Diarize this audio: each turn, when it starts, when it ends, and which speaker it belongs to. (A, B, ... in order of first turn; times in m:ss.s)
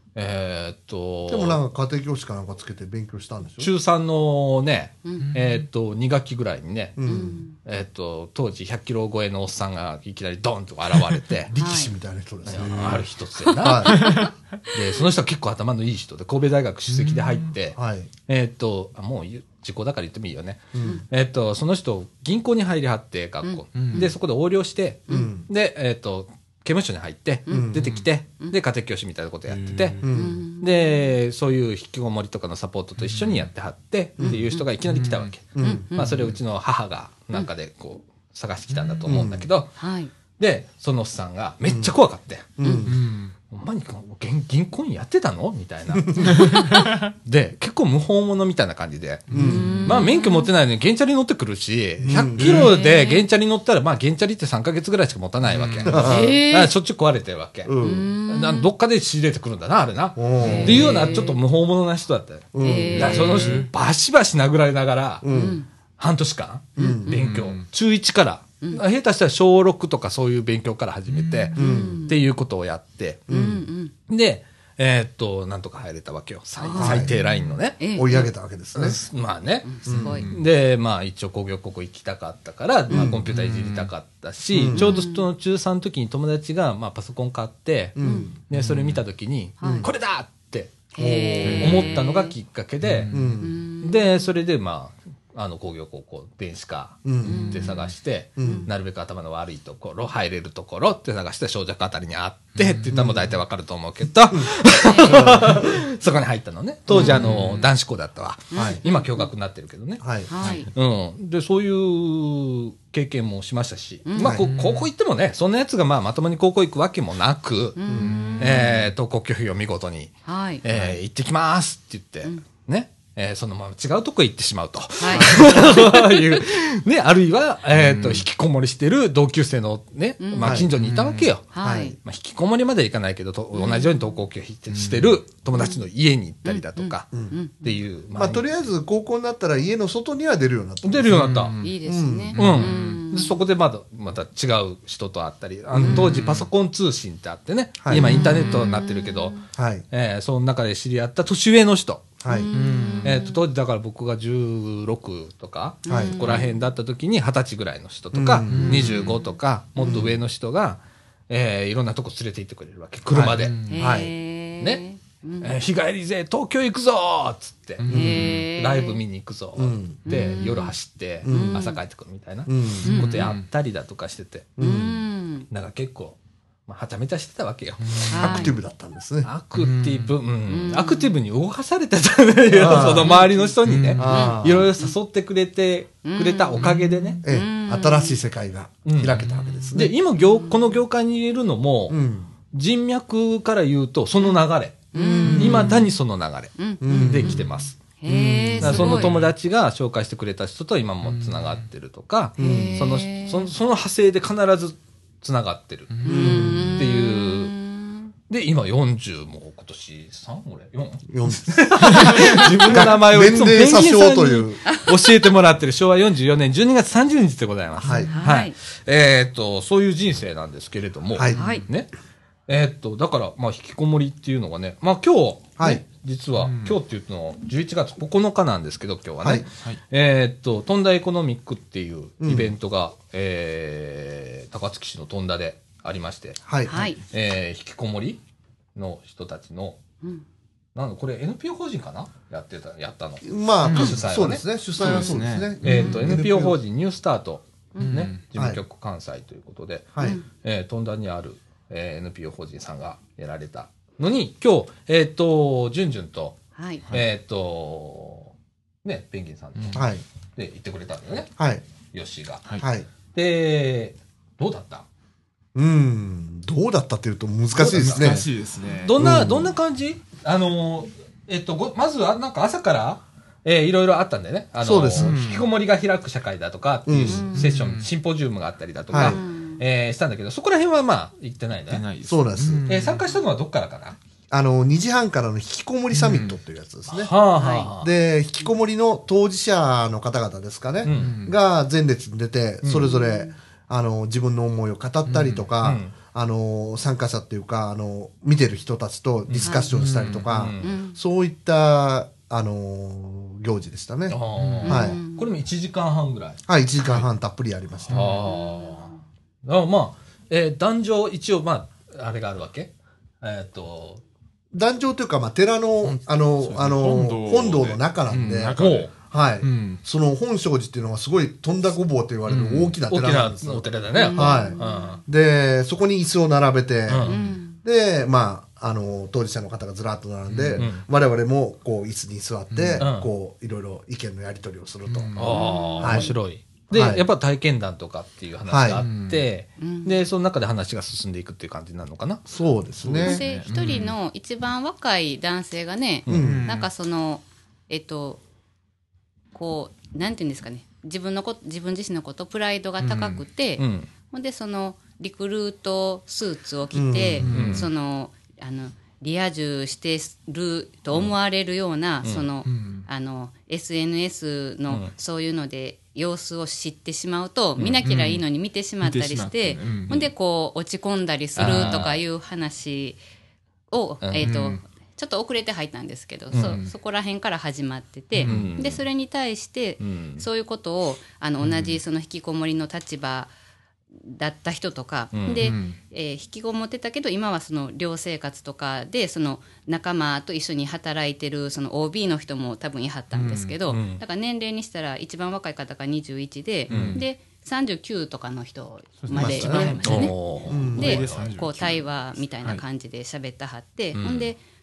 0:00.2-0:01.6 A
0:01.3-0:03.7 B
0:03.6-0:07.0 A
0:05.0-0:05.3 C
0:05.2-0:05.6 D
0:07.0-0:07.4 B
0:07.0-0:07.6 C
0:07.6-0:11.5 A
0:11.5-0:14.1 B
0:11.5-0:11.9 C
0:12.4-0:30.0 A
0:12.5-0:13.0 D
0:13.4-0:14.7 C
0:14.0-0:14.3 D
0:16.9-0:17.5 D
0:17.8-0:18.1 B
0:20.7-0:21.0 B
0:23.4-0:24.1 C
0:23.7-0:24.1 D
0:25.1-0:25.4 B
0:27.5-0:28.5 C
0:27.5-0:28.0 B
0:29.5-0:30.3 D
0:30.0-0:30.4 B
0:30.1-0:31.0 C
0:30.6-0:39.7 A
0:33.0-0:33.5 D
0:34.2-0:34.6 C
0:34.8-0:35.4 D
0:35.5-0:35.8 B
0:35.6-0:36.2 C
0:36.0-0:36.4 D
0:38.7-0:39.1 D
0:39.0-0:39.4 B
0:39.8-0:40.1 C
0:40.4-0:42.6 A
0:41.6-0:41.9 B
0:42.6-0:43.0 B
0:42.6-0:42.9 C
0:42.8-0:43.3 D
0:43.5-0:49.3 A
0:45.9-0:46.3 B
0:46.2-0:46.9 C
0:49.3-0:49.8 D
0:49.3-0:49.8 B
0:49.3-0:50.5 C
0:49.8-1:05.3 A
0:52.0-0:52.7 B
0:52.4-0:53.2 C
0:52.4-0:52.7 D
0:55.5-0:56.0 D
0:55.8-0:56.4 B
0:55.9-0:56.7 C
0:57.6-0:58.1 B
0:57.8-0:58.7 C
1:00.2-1:00.9 B
1:00.4-1:01.4 C
1:00.4-1:00.9 D
1:02.5-1:03.4 B
1:02.6-1:03.6 C
1:03.2-1:03.7 D
1:05.2-1:05.6 B
1:05.2-1:05.7 C
1:06.0-1:13.3 A
1:06.8-1:07.1 C
1:06.8-1:07.1 B
1:07.1-1:07.7 D
1:11.1-1:11.5 D
1:11.5-1:12.2 C
1:11.5-1:12.1 B
1:13.3-1:13.6 B
1:13.3-1:13.9 C
1:14.1-1:17.8 A
1:16.6-1:17.1 C
1:16.8-1:17.1 B
1:17.8-1:18.3 C
1:17.9-1:19.0 B
1:18.7-1:33.1 A
1:19.6-1:20.3 C
1:19.8-1:20.2 B
1:19.9-1:20.4 D
1:22.9-1:23.2 B
1:23.3-1:23.9 D
1:24.5-1:24.8 B
1:24.7-1:25.2 C
1:28.0-1:28.3 B
1:28.0-1:28.3 C
1:28.5-1:29.0 D
1:29.6-1:29.9 C
1:29.6-1:29.9 B
1:30.9-1:32.3 C
1:31.0-1:31.7 B
1:31.4-1:32.0 D
1:32.8-1:33.5 D
1:33.1-1:33.6 B
1:33.4-1:34.2 C
1:33.8-1:57.8 A
1:37.0-1:37.5 B
1:37.2-1:37.7 C
1:37.3-1:37.9 D
1:38.4-1:38.7 B
1:38.4-1:38.7 C
1:42.5-1:43.1 D
1:42.9-1:43.3 B
1:44.8-1:45.4 C
1:45.0-1:45.6 B
1:46.9-1:47.4 B
1:47.0-1:47.7 D
1:48.5-1:49.3 C
1:48.5-1:48.8 B
1:50.0-1:50.3 B
1:50.3-1:50.7 C
1:50.4-1:50.6 D
1:54.0-1:54.4 C
1:54.2-1:54.5 B
1:54.5-1:54.9 D
1:57.8-1:58.7 C
1:57.9-1:58.2 B
1:58.0-1:58.7 D
1:58.4-2:18.4 A
2:00.2-2:00.6 C
2:05.0-2:05.9 C
2:05.1-2:05.7 B
2:07.7-2:08.2 D
2:10.2-2:10.6 C
2:10.4-2:10.7 B
2:10.8-2:11.3 D
2:11.5-2:12.0 C
2:11.6-2:12.0 B
2:13.5-2:14.1 C
2:14.7-2:15.1 D
2:15.5-2:15.8 C
2:16.4-2:17.6 C
2:18.1-2:21.3 B
2:20.8-2:21.6 A
2:21.0-2:21.8 D
2:21.6-2:23.4 C
2:21.8-2:22.3 B
2:22.3-2:23.0 D
2:22.4-2:29.4 A
2:25.8-2:26.1 B
2:25.8-2:26.0 C
2:25.8-2:26.5 D
2:27.8-2:28.2 B
2:27.9-2:29.4 C
2:28.3-2:28.7 D
2:29.5-2:29.8 B
2:29.9-2:32.1 A
2:32.2-2:32.5 B
2:32.3-2:33.4 C
2:32.5-2:33.2 D
2:33.0-2:43.7 A
2:35.8-2:36.5 C
2:35.9-2:36.4 B
2:38.1-2:38.9 B
2:38.4-2:39.2 D
2:39.8-2:40.1 B
2:43.1-2:44.1 B
2:43.3-2:43.8 D
2:43.7-2:45.6 C
2:45.4-2:54.6 A
2:47.8-2:48.4 D
2:47.9-2:49.0 C
2:49.6-2:50.1 B
2:50.1-2:51.8 C
2:51.2-2:51.6 B
2:52.4-2:52.9 B
2:52.8-2:53.5 D
2:52.8-2:53.2 C
2:54.6-2:55.0 B
2:54.6-2:55.5 C
2:55.5-2:58.1 A
2:57.8-2:58.2 D
2:58.1-2:58.6 C
2:58.1-2:59.3 B
2:59.2-3:07.2 A
2:59.6-3:00.2 D
3:00.5-3:01.1 C
3:02.5-3:03.2 B
3:02.8-3:03.5 C
3:03.6-3:04.1 D
3:03.9-3:04.7 B
3:04.0-3:04.9 C
3:06.0-3:06.7 C
3:06.6-3:06.8 D
3:07.2-3:09.9 B
3:07.2-3:08.2 C
3:08.8-3:12.0 A
3:10.2-3:10.7 C
3:11.9-3:12.3 B
3:12.5-3:17.8 A
3:14.9-3:15.9 C
3:14.9-3:15.8 B
3:15.3-3:15.7 D
3:16.6-3:17.4 C
3:16.8-3:17.4 B
3:18.0-3:19.2 C
3:18.0-3:19.1 B
3:18.6-3:25.9 A
3:18.9-3:19.3 D
3:21.0-3:21.6 D
3:22.4-3:22.8 B
3:22.4-3:23.5 C
3:25.9-3:26.7 D
3:26.0-3:26.8 B
3:26.0-3:28.1 C
3:26.7-3:27.6 A
3:28.3-3:41.9 A
3:31.1-3:34.6 B
3:31.9-3:32.2 D
3:37.8-3:38.1 B
3:37.9-3:38.1 D
3:38.1-3:38.5 C
3:41.1-3:41.4 B
3:41.3-3:41.6 C
3:41.4-3:41.6 D
3:42.5-3:56.4 A
3:45.6-3:45.8 B
3:46.4-3:46.8 D
3:52.2-3:52.5 B
3:56.4-3:56.9 B
3:56.6-3:57.0 C
3:57.0-3:58.2 A
3:58.7-3:59.8 A
4:00.7-4:04.4 A
4:03.2-4:06.6 B
4:03.6-4:04.0 D
4:04.8-4:06.2 D
4:04.8-4:05.1 C
4:05.6-4:18.3 A
4:05.6-4:06.0 C
4:07.7-4:08.0 C
4:07.8-4:08.2 D
4:08.3-4:08.6 B
4:16.6-4:16.8 C
4:18.8-4:21.3 A
4:19.5-4:19.8 D
4:19.7-4:20.0 B
4:21.4-4:21.6 B
4:21.9-4:22.6 A
4:22.6-4:22.9 B
4:23.1-4:24.8 A
4:25.5-4:28.3 B
4:27.6-4:41.8 A
4:27.6-4:28.9 D
4:29.0-4:29.5 B
4:34.6-4:35.2 B
4:34.9-4:35.5 D
4:36.8-4:37.3 B
4:37.1-4:37.4 C
4:37.2-4:37.9 D
4:38.9-4:39.2 B
4:39.0-4:39.6 C
4:41.7-4:43.2 D
4:42.0-4:42.6 B
4:42.7-4:44.0 A
4:44.3-4:47.1 B
4:45.9-4:46.3 D
4:46.9-4:47.9 A
4:47.4-4:47.7 C
4:47.7-5:05.0 B
4:50.8-4:51.2 A
4:50.9-4:51.4 D
4:52.6-4:52.9 A
4:52.8-4:53.3 C
4:55.0-4:55.5 D
4:55.6-4:55.9 A
4:59.3-5:00.8 A
4:59.4-4:59.7 C
4:59.7-5:00.5 D
5:00.6-5:01.0 C
5:04.1-5:06.4 A
5:04.4-5:04.7 D
5:04.6-5:05.3 C
5:06.5-5:08.1 B
5:06.8-5:07.1 D
5:07.8-5:08.2 D
5:07.9-5:08.9 A
5:08.1-5:08.9 C
5:09.4-5:14.0 A
5:14.5-5:35.1 B
5:15.8-5:19.8 D
5:18.6-5:18.9 A
5:22.3-5:22.8 D
5:22.9-5:25.0 A
5:23.9-5:25.0 C
5:26.9-5:27.1 A
5:27.1-5:27.6 C
5:30.3-5:30.7 D
5:30.6-5:30.8 A
5:32.5-5:32.8 D
5:32.8-5:33.1 A
5:34.9-5:35.4 D
5:35.1-5:42.2 A
5:35.3-5:36.1 C
5:35.8-5:36.2 B
5:36.7-5:37.0 B
5:38.4-5:38.8 B
5:38.7-5:39.2 D
5:39.6-5:40.0 C
5:42.3-5:43.2 B
5:42.8-5:44.0 D
5:43.0-5:48.2 C
5:46.1-5:46.4 A
5:46.1-5:46.4 B
5:46.2-5:46.7 D
5:49.3-6:13.0 C
5:52.8-5:53.2 D
5:53.6-5:53.9 A
5:56.7-5:57.3 B
5:57.2-5:57.7 D
5:57.2-5:57.7 A
6:02.0-6:02.3 A
6:02.4-6:02.9 D
6:07.8-6:08.2 D
6:08.8-6:10.1 D
6:11.4-6:12.0 A
6:11.5-6:11.8 D
6:13.7-6:23.3 C
6:14.0-6:14.3 A
6:14.2-6:14.6 D
6:16.3-6:16.6 A
6:16.3-6:16.7 D
6:18.2-6:18.6 D
6:18.2-6:18.8 A
6:19.8-6:20.2 A
6:21.4-6:21.8 D
6:24.0-6:44.4 C
6:25.1-6:25.5 A
6:25.4-6:25.8 D
6:33.1-6:33.6 D
6:33.7-6:34.0 A
6:36.7-6:37.0 D
6:36.7-6:37.0 A
6:39.0-6:41.8 D
6:39.1-6:41.0 B
6:39.5-6:41.4 A
6:43.9-6:44.3 A